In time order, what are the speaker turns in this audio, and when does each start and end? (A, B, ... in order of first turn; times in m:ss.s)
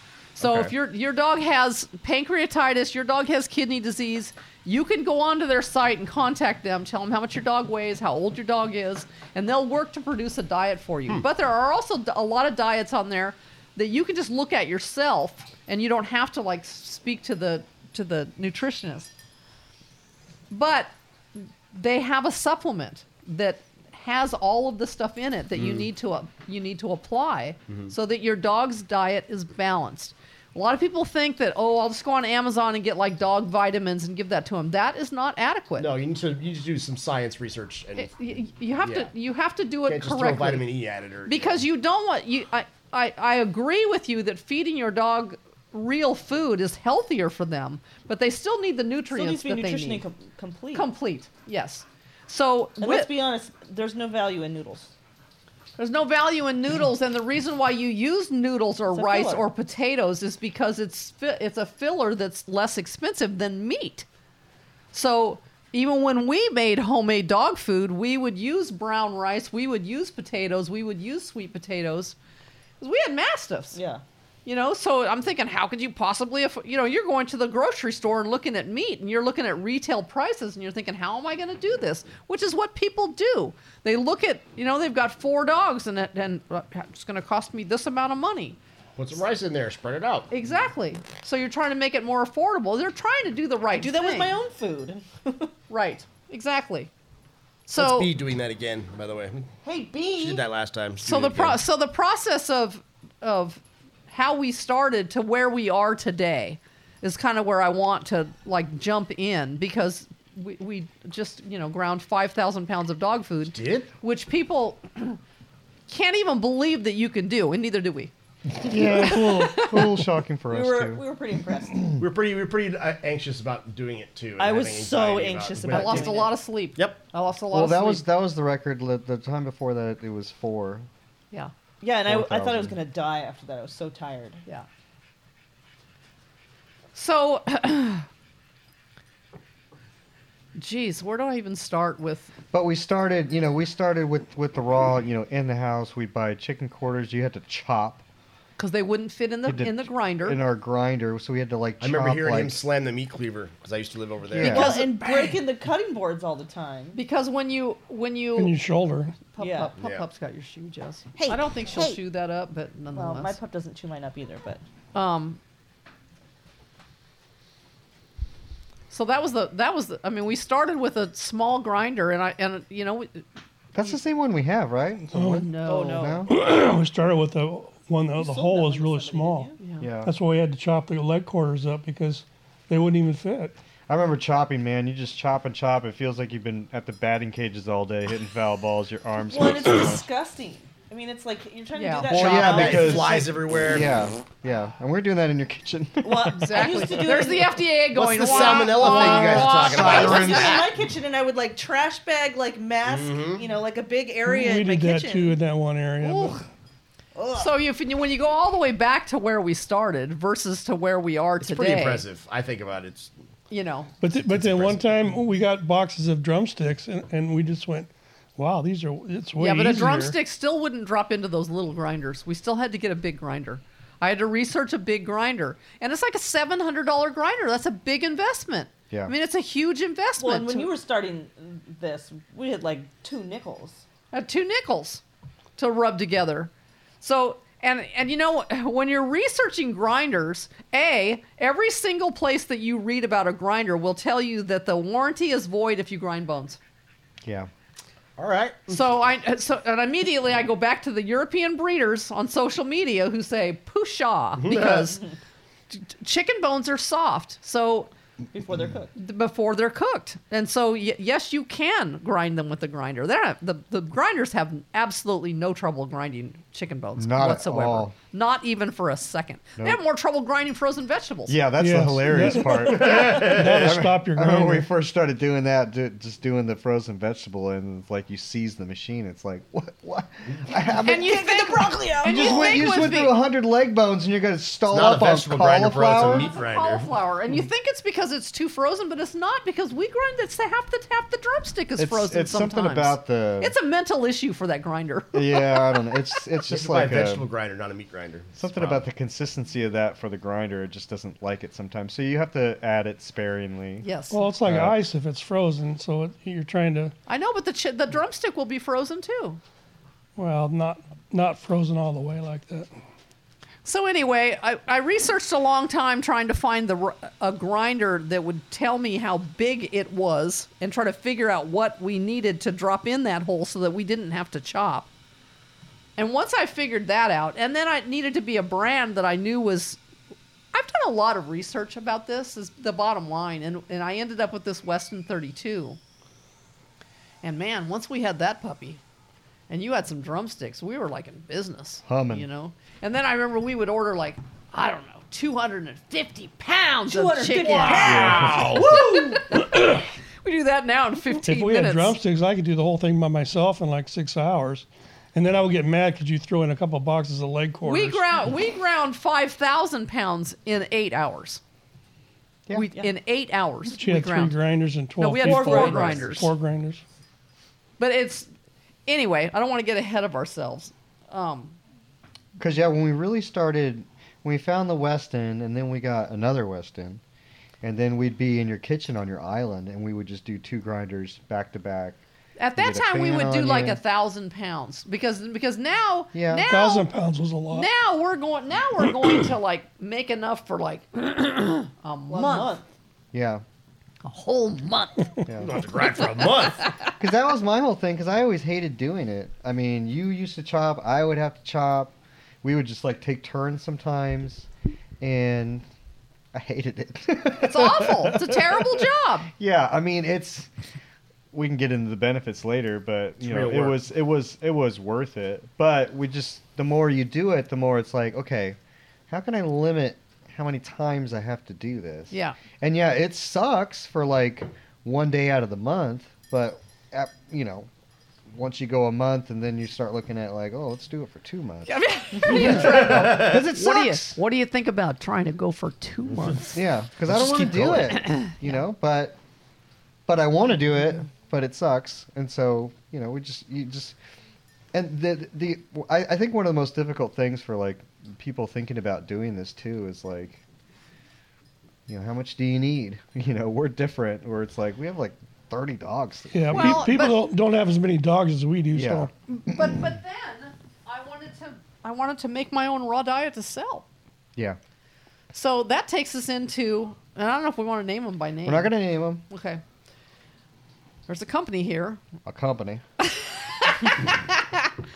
0:00.4-0:19.1 A
0:00.4-0:00.7 B
0:20.5-0:35.9 A
0:25.6-0:25.9 B
0:35.8-0:39.1 B
0:38.0-0:40.7 A
0:39.9-0:41.6 B
0:41.3-0:50.0 A
0:49.1-0:50.9 C
0:50.7-0:53.1 A
0:52.8-0:54.9 C
0:55.8-1:04.1 A
0:58.9-0:59.4 C
1:04.9-1:12.2 A
1:12.8-1:13.8 A
1:13.7-1:14.0 C
1:14.5-1:28.6 A
1:29.0-1:30.3 B
1:30.3-1:34.4 A
1:33.8-1:35.5 C
1:35.7-1:36.9 A
1:37.7-1:38.1 A
1:37.8-1:39.5 B
1:39.6-1:40.4 C
1:40.2-1:41.6 B
1:41.0-1:55.2 A
1:53.5-1:53.9 B
1:55.9-1:58.1 A
1:58.5-2:01.0 D
1:58.7-2:00.0 A
2:00.5-2:01.9 C
2:02.0-2:06.2 B
2:04.4-2:06.3 C
2:05.7-2:08.0 A
2:07.5-2:10.9 D
2:11.8-2:14.4 C
2:12.1-2:12.8 D
2:17.0-2:18.1 A
2:20.6-2:22.3 A
2:22.5-2:28.0 D
2:28.6-2:30.4 A
2:29.5-2:32.6 D
2:31.8-2:34.8 B
2:34.3-2:34.8 D
2:34.4-2:37.0 C
2:34.4-2:35.4 A
2:37.0-2:38.6 A
2:38.4-2:39.3 E
2:39.3-2:43.4 A
2:39.4-2:39.7 C
2:39.8-2:40.0 B
2:41.2-2:42.0 C
2:43.0-2:44.6 C
2:44.9-2:45.4 A
2:48.9-2:53.2 A
2:53.7-2:56.3 D
2:55.1-2:55.5 E
2:55.2-2:56.1 A
2:55.6-2:56.3 C
2:56.3-2:59.5 E
2:58.2-2:59.6 C
2:59.6-2:59.9 A
2:59.8-3:00.1 D
3:00.0-3:03.6 E
3:03.9-3:10.1 D
3:09.3-3:13.3 C
3:11.8-3:12.4 A
3:12.1-3:17.0 D
3:12.1-3:13.9 B
3:16.0-3:17.6 C
3:16.3-3:20.5 A
3:17.9-3:20.7 B
3:18.2-3:25.4 C
3:18.8-3:20.7 D
3:22.8-3:23.4 B
3:24.2-3:26.4 E
3:26.0-3:26.4 A
3:27.2-3:27.5 C
3:27.4-3:32.0 A
3:31.4-3:33.1 B
3:33.5-3:33.9 A
3:34.0-3:40.2 E
3:34.3-3:34.8 B
3:39.4-3:50.7 A
3:50.2-3:53.8 C
3:54.1-3:55.0 A
3:55.6-4:06.6 A
4:07.2-4:07.5 D
4:08.2-4:08.8 B
4:08.7-4:15.0 A
4:14.4-4:14.9 B
4:15.7-4:17.9 A
4:18.3-4:18.9 C
4:19.0-4:31.4 A
4:27.0-4:28.0 D
4:31.3-4:41.4 D
4:31.6-4:34.7 E
4:40.9-4:43.2 A
4:40.9-4:42.5 C
4:42.0-4:46.3 D
4:44.7-4:46.9 B
4:45.9-4:56.2 A
4:51.8-4:53.6 D
4:55.1-4:57.3 D
4:56.5-4:58.8 B
4:58.4-5:03.9 D
5:03.8-5:04.3 A
5:04.1-5:06.9 E
5:04.4-5:04.8 D
5:07.1-5:09.4 A
5:10.2-5:12.7 E
5:13.6-5:24.9 A
5:26.0-5:29.8 A
5:30.5-5:35.8 A
5:37.2-5:38.8 A
5:39.5-5:52.0 A
5:41.9-5:42.3 D
5:46.9-5:49.3 C
5:47.7-5:48.7 B
5:47.8-5:48.5 D
5:51.2-5:58.1 E
5:57.6-6:01.4 A
6:02.5-6:04.4 A
6:03.8-6:06.8 E
6:05.0-6:06.3 A
6:05.2-6:06.1 C
6:07.8-6:08.3 A
6:08.9-6:11.6 A
6:12.4-6:17.0 D
6:17.6-6:22.0 D
6:22.4-6:26.9 A
6:22.6-6:23.8 D
6:26.1-6:26.5 D
6:26.5-6:27.7 E
6:27.5-6:32.6 A
6:32.1-6:32.7 C
6:33.1-6:33.4 D
6:34.0-6:35.2 A
6:35.3-6:35.5 D
6:35.4-6:36.7 B
6:37.0-6:44.5 D
6:45.0-6:45.6 D
6:46.3-6:48.8 D
6:47.4-6:49.3 A
6:49.4-6:50.5 D
6:51.3-6:58.6 D
6:53.2-6:53.8 B
6:59.1-7:07.7 D
7:02.1-7:02.4 A
7:08.3-7:14.2 D
7:11.7-7:16.6 A
7:16.5-7:19.2 D
7:17.1-7:17.9 B
7:17.7-7:18.4 A
7:20.1-7:24.0 D
7:24.7-7:30.4 D
7:31.9-7:37.1 D
7:36.3-7:39.1 E
7:36.5-7:37.2 A
7:38.7-7:39.8 D
7:39.3-7:43.9 A
7:45.3-7:48.7 A
7:48.4-7:49.2 D
7:49.3-7:49.6 A
7:51.1-7:52.0 A
7:52.3-7:52.8 D
7:53.0-7:54.7 A